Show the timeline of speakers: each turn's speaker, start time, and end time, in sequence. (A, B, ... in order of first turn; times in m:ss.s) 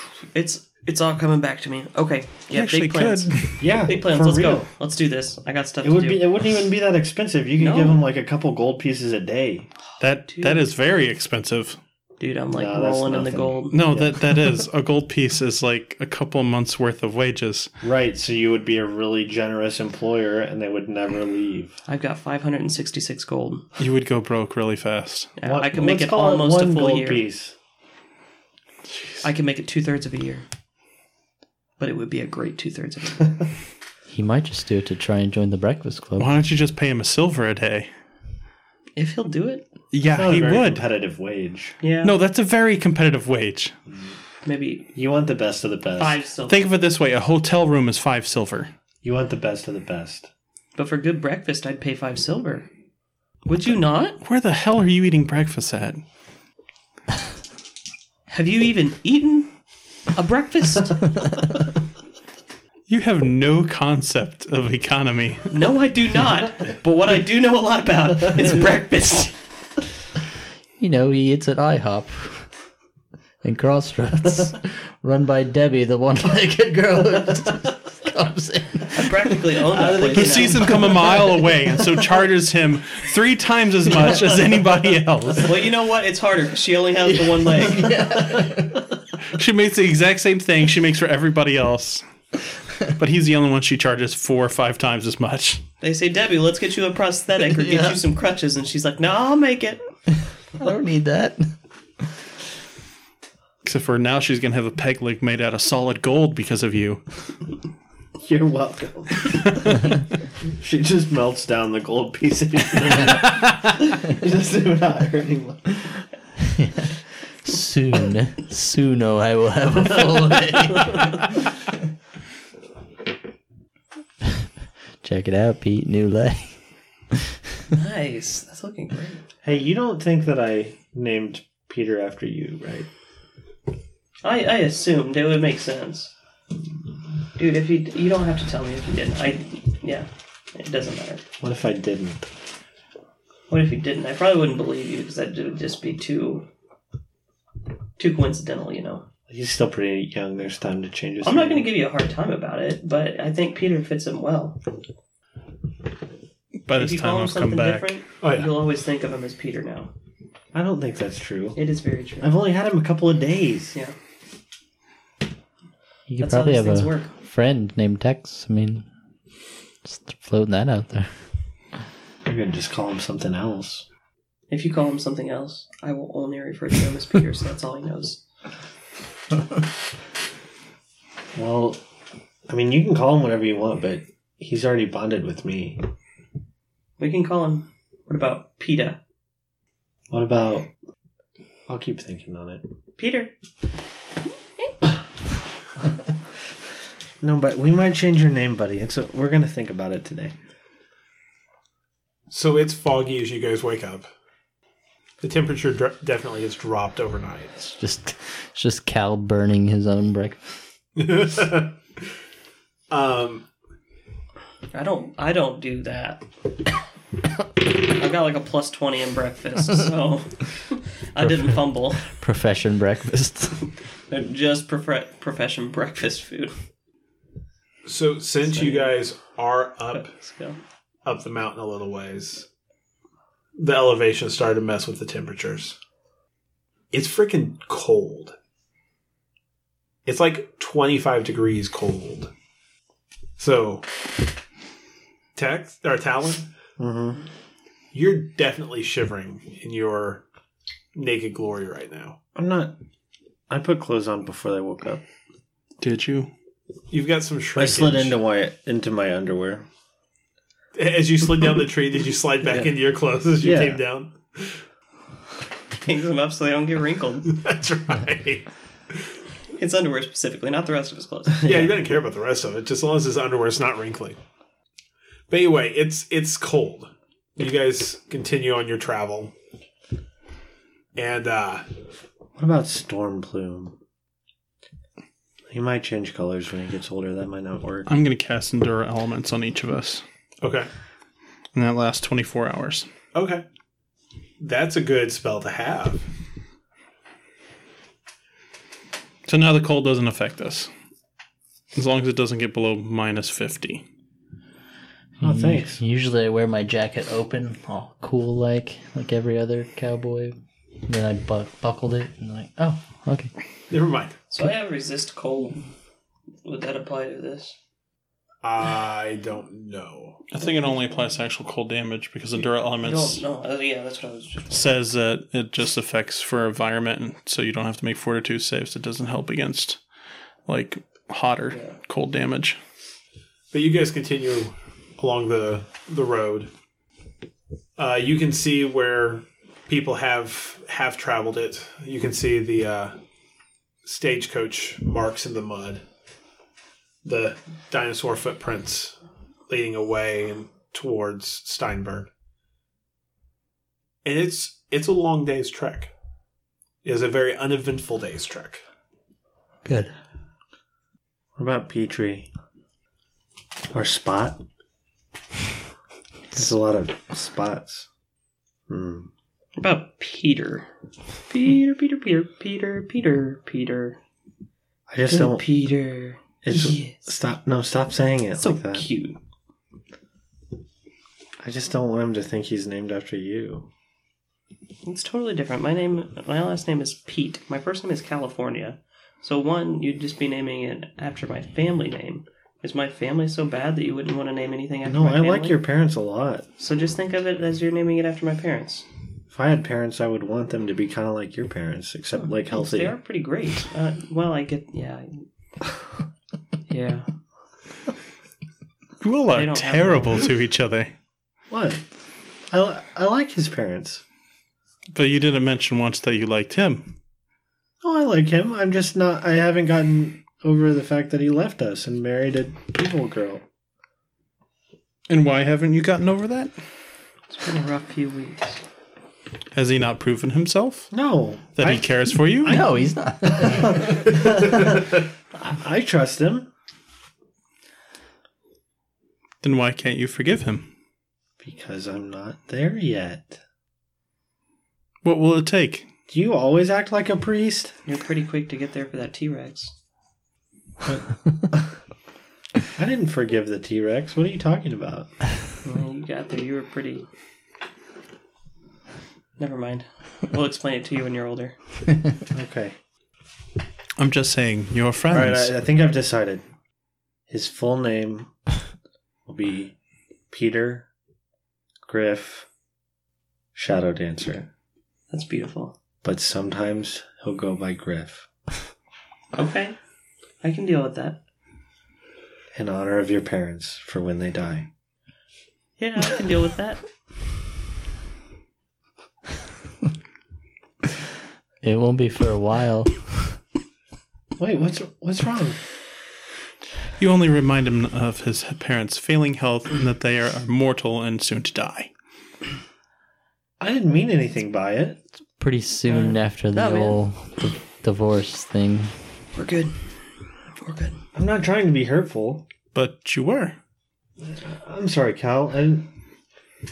0:00.3-0:06.3 A
0:02.5-0:03.6 B
0:03.6-0:04.7 C
0:05.8-0:09.7 C
0:07.6-0:08.0 A
0:10.0-0:11.8 B
0:10.3-0:10.6 A
0:12.2-0:13.8 A
0:12.5-0:14.2 C
0:13.7-0:17.7 B
0:17.8-0:21.8 C
0:21.9-0:23.6 A
0:23.8-0:25.3 B
0:25.4-0:27.2 A
0:25.4-0:27.5 C
0:29.2-0:30.4 A
0:31.8-0:33.3 A
0:34.1-0:36.3 D
0:36.2-0:37.9 B
0:39.0-0:39.6 A
0:39.9-0:40.8 B
0:40.1-0:41.8 C
0:41.8-0:42.1 A
0:42.0-0:43.7 B
0:44.4-0:44.9 A
0:44.9-0:46.2 C
0:46.0-0:46.7 A
0:46.5-0:48.7 B
0:49.0-0:50.3 C
0:50.7-0:52.7 A
0:53.4-0:54.2 A
0:54.2-0:56.0 B
0:58.3-0:59.5 A
1:00.1-1:01.0 A
1:02.9-1:05.5 B
1:05.5-1:09.3 A
1:10.8-1:12.5 D
1:13.4-1:19.4 D
1:18.9-1:20.8 A
1:19.7-1:20.8 C
1:20.1-1:25.6 B
1:25.4-1:27.9 A
1:27.5-1:28.7 D
1:29.3-1:32.0 B
1:32.8-1:35.6 B
1:35.8-1:39.8 A
1:37.5-1:38.0 D
1:40.6-1:41.5 D
1:43.6-1:47.4 B
1:48.2-1:49.9 C
1:50.6-1:56.0 C
1:56.4-1:56.9 D
1:57.4-2:01.4 D
2:05.0-2:06.6 D
2:07.7-2:09.2 A
2:09.4-2:12.9 C
2:14.2-2:16.1 A
2:17.4-2:21.2 A
2:21.4-2:22.3 C
2:23.5-2:26.5 A
2:28.0-2:29.0 A
2:29.3-2:31.7 C
2:31.2-2:34.6 A
2:36.6-2:37.9 B
2:36.7-2:39.9 A
2:38.2-2:38.5 E
2:40.5-2:41.6 C
2:41.6-2:42.3 A
2:42.2-2:43.8 C
2:46.1-2:48.9 D
2:46.2-2:47.1 A
2:49.8-2:51.1 D
2:52.2-2:53.8 C
2:54.5-2:58.2 A
3:01.3-3:01.8 C
3:02.5-3:05.8 C
3:07.0-3:09.0 A
3:10.1-3:10.7 C
3:11.7-3:12.6 C
3:13.0-3:13.3 A
3:17.2-3:20.3 C
3:22.3-3:24.1 E
3:25.2-3:27.6 E
3:27.6-3:30.6 D
3:31.0-3:31.8 E
3:32.9-3:33.5 E
3:34.7-3:36.3 A
3:37.8-3:42.1 A
3:41.2-3:43.6 D
3:44.1-3:46.5 A
3:47.8-3:50.1 E
3:48.5-3:48.9 A
3:49.9-3:50.6 A
3:51.0-3:52.5 E
3:53.6-3:55.8 E
3:56.9-3:58.3 E
4:00.0-4:02.3 E
4:03.4-4:03.8 E
4:05.3-4:06.5 E
4:06.8-4:07.2 C
4:07.9-4:10.2 E
4:10.9-4:12.2 E
4:12.3-4:12.7 C
4:13.5-4:15.0 C
4:15.8-4:16.3 B
4:16.9-4:18.2 E
4:17.6-4:19.6 C
4:20.7-4:24.6 E
4:23.4-4:23.8 C
4:25.8-4:27.4 A
4:27.3-4:29.1 E
4:29.6-4:31.5 A
4:31.4-4:34.2 E
4:35.3-4:39.3 E
4:40.9-4:41.7 E
4:42.4-4:43.8 C
4:45.5-4:47.9 C
4:47.8-4:50.0 B
4:50.4-4:50.7 E
4:51.5-4:52.9 B
4:53.1-4:53.4 E
4:54.4-4:56.0 E
4:59.3-5:00.7 B
5:01.7-5:03.8 B
5:05.2-5:05.8 C
5:05.2-5:13.3 D
5:13.7-5:14.2 E
5:14.3-5:15.7 A
5:16.4-5:17.6 A
5:18.4-5:20.2 E
5:20.3-5:23.2 B
5:22.8-5:24.7 A
5:24.5-5:29.8 B
5:30.5-5:32.6 B
5:31.5-5:31.8 A
5:33.5-5:36.5 E
5:37.8-5:43.0 E
5:43.8-5:45.8 E
5:47.0-5:49.0 E
5:49.5-5:52.1 E
5:54.0-5:55.9 E
5:56.8-5:58.6 E
5:59.6-5:59.9 D
6:01.4-6:02.3 C
6:03.7-6:04.4 C
6:06.3-6:07.9 C
6:08.7-6:09.1 C
6:09.6-6:10.7 A
6:11.3-6:14.0 A
6:14.9-6:15.5 C
6:15.1-6:17.0 A
6:16.4-6:18.9 C
6:18.4-6:19.2 A
6:21.4-6:23.7 C
6:24.8-6:35.6 A
6:34.8-6:36.4 C
6:36.6-6:38.8 A
6:39.3-6:42.9 C
6:42.1-6:45.2 A
6:46.7-6:47.1 A
6:49.0-6:50.9 B
6:49.3-6:50.2 A
6:51.5-6:51.8 C
6:52.5-6:54.0 C
6:54.9-6:56.9 B
6:57.8-7:03.4 C
7:05.1-7:06.5 B
7:07.3-7:08.6 A
7:09.5-7:10.9 B
7:10.9-7:12.8 C
7:11.6-7:12.6 B
7:12.4-7:14.2 D
7:13.3-7:16.5 C
7:19.4-7:20.7 B
7:21.4-7:23.4 C
7:25.0-7:25.8 B
7:26.1-7:27.8 C
7:27.8-7:29.7 A
7:30.8-7:31.7 C
7:32.7-7:35.1 C
7:35.6-7:37.1 A
7:39.4-7:41.6 A
7:42.3-7:42.8 C
7:44.0-7:45.5 B
7:45.1-7:46.4 C
7:47.3-7:48.3 C
7:49.3-7:49.7 C
7:50.3-7:50.9 C
7:51.8-7:52.4 C
7:53.5-7:54.5 C
7:55.1-7:55.8 A
7:56.0-7:58.3 C
7:59.3-7:59.8 A
8:00.4-8:01.2 A
8:02.5-8:04.7 C
8:05.8-8:06.8 A
8:11.6-8:13.3 D
8:14.4-8:15.6 C
8:17.0-8:21.9 B
8:23.6-8:25.0 C
8:25.4-8:28.9 D
8:25.9-8:27.0 A
8:29.3-8:31.0 A
8:31.1-8:32.4 C
8:32.7-8:33.6 B
8:34.2-8:35.9 C